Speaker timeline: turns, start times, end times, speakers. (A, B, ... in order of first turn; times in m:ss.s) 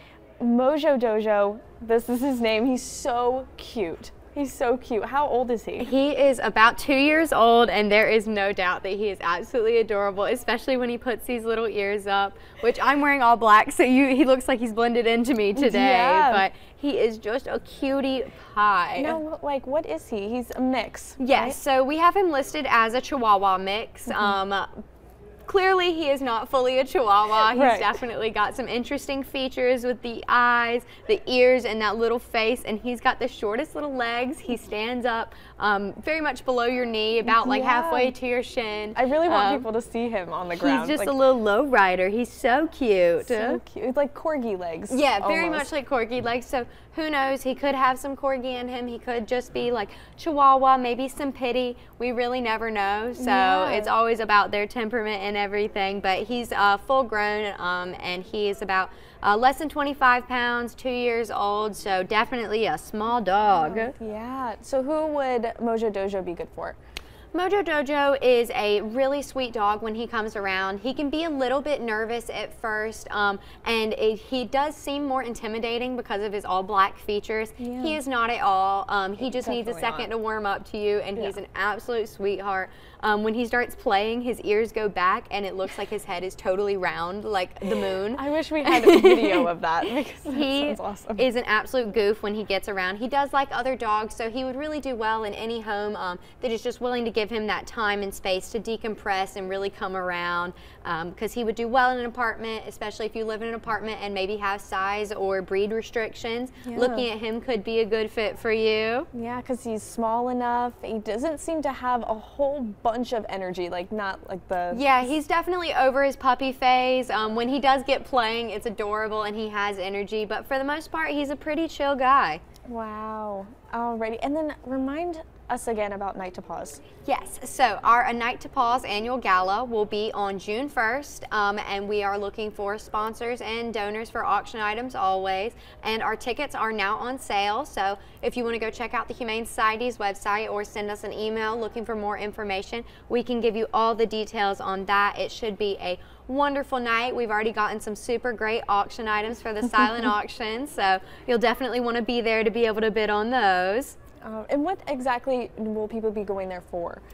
0:00.4-0:05.9 A
0:05.8-0:19.2 B
0:15.6-0:16.4 A
0:19.0-0:21.6 A
0:21.2-0:24.7 B
0:24.1-0:24.4 A
0:25.4-0:39.6 B
0:27.5-0:28.0 A
0:37.2-0:38.1 A
0:38.9-0:41.2 A
0:40.6-0:43.6 B
0:43.2-0:45.7 A
0:44.9-1:03.9 B
0:53.2-0:53.9 A
1:03.5-1:06.8 A
1:07.3-1:29.5 B
1:17.6-1:18.0 A
1:19.2-1:20.1 A
1:28.1-1:31.2 A
1:30.3-1:49.1 B
1:46.6-1:47.1 A
1:49.1-1:55.1 A
1:54.7-2:02.4 B
2:02.7-2:06.8 A
2:07.0-2:34.0 B
2:34.2-2:37.0 A